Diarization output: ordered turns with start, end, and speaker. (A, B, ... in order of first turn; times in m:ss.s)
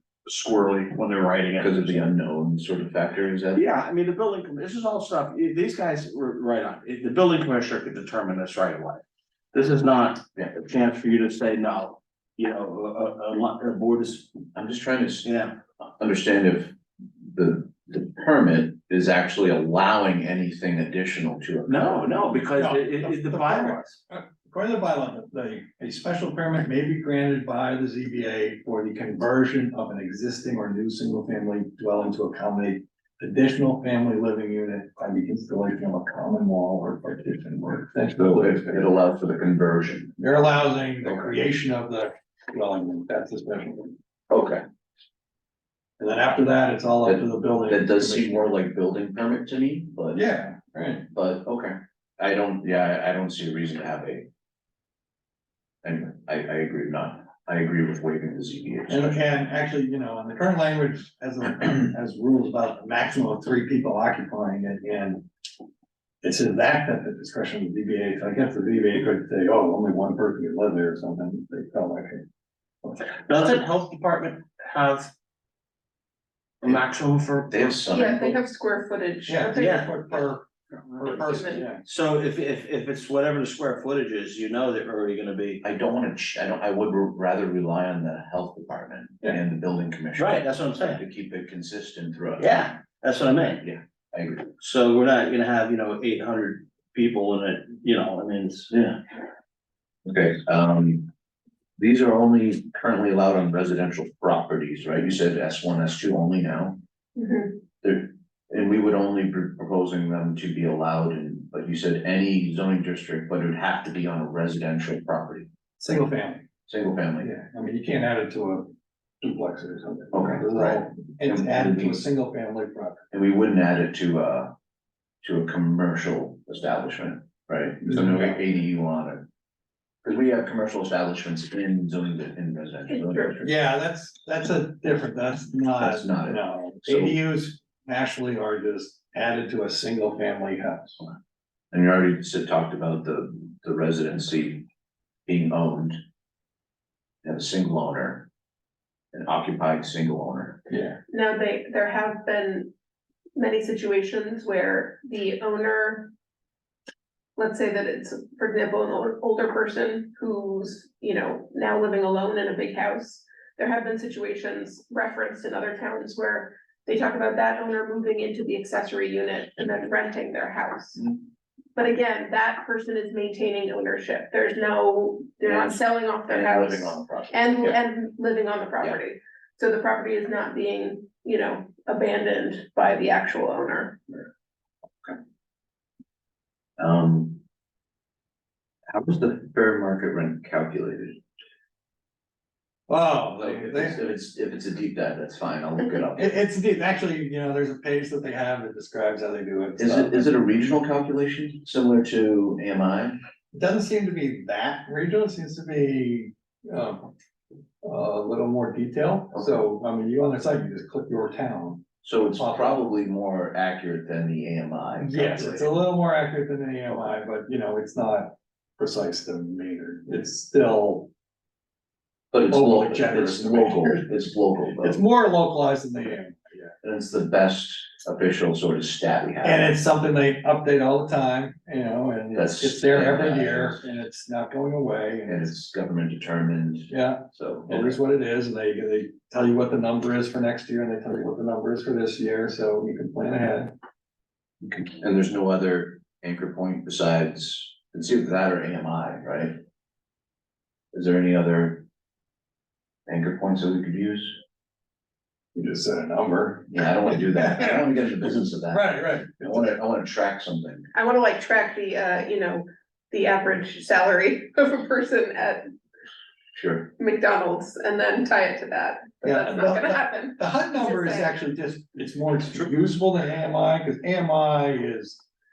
0:00.3-0:02.0 A
0:01.6-0:03.6 B
0:03.5-0:09.0 A
0:09.5-0:14.3 A
0:14.6-0:15.3 B
0:15.2-0:15.5 A
0:15.8-0:22.1 B
0:21.7-0:24.0 A
0:22.6-0:38.9 C
0:38.2-0:40.1 B
0:40.2-0:44.0 C
0:41.1-0:41.3 B
0:44.3-0:44.6 B
0:46.0-0:48.5 C
0:47.0-0:50.2 B
0:50.1-0:51.1 C
0:51.1-0:54.3 B
0:55.8-0:59.2 B
0:58.9-1:05.2 C
1:06.2-1:12.2 C
1:13.1-1:15.1 A
1:16.6-1:17.9 A
1:17.5-1:18.4 B
1:17.9-1:19.9 D
1:19.3-1:21.8 C
1:19.6-1:19.9 A
1:21.0-1:21.7 D
1:21.8-1:25.6 A
1:25.6-1:32.8 B
1:30.2-1:31.0 A
1:32.4-1:33.6 A
1:33.6-1:34.5 B
1:34.6-1:39.0 A
1:40.1-1:41.1 B
1:41.8-1:46.8 B
1:47.2-1:47.6 D
1:47.8-1:55.5 B
1:55.8-1:56.4 C
1:56.7-1:57.3 B
1:57.2-1:58.7 C
1:59.2-2:03.0 C
2:00.1-2:02.0 B
2:03.1-2:04.5 B
2:05.2-2:09.2 B
2:07.9-2:08.4 C
2:10.0-2:13.5 B
2:12.9-2:13.3 D
2:13.4-2:21.0 C
2:15.8-2:17.2 B
2:21.7-2:24.6 B
2:25.3-2:26.0 B
2:27.2-2:28.3 B
2:29.1-2:30.6 B
2:30.7-2:31.0 C
2:31.1-2:32.7 D
2:33.4-2:36.1 D
2:37.4-2:51.0 D
2:51.8-3:04.1 D
2:55.4-2:57.8 B
3:06.8-3:07.4 B
3:08.9-3:11.2 B
3:12.9-3:14.0 C
3:13.4-3:16.4 B
3:16.2-3:20.3 C
3:19.8-3:23.2 B
3:23.5-3:27.1 C
3:27.8-3:32.9 C
3:29.3-3:29.6 B
3:32.0-3:35.7 B
3:35.0-3:41.1 C
3:42.3-3:45.0 B
3:42.5-3:44.2 C
3:44.8-3:46.7 C
3:46.8-3:49.7 B
3:49.4-3:55.6 C
3:52.3-3:53.8 B
3:55.3-3:58.0 B
3:56.9-4:03.7 C
4:04.6-4:09.6 B
4:10.9-4:11.8 B
4:13.1-4:14.4 B
4:15.6-4:17.8 C
4:16.7-4:20.9 B
4:18.7-4:19.7 C
4:20.9-4:25.6 D
4:26.6-4:26.9 B
4:27.0-4:31.3 D
4:29.2-4:35.2 C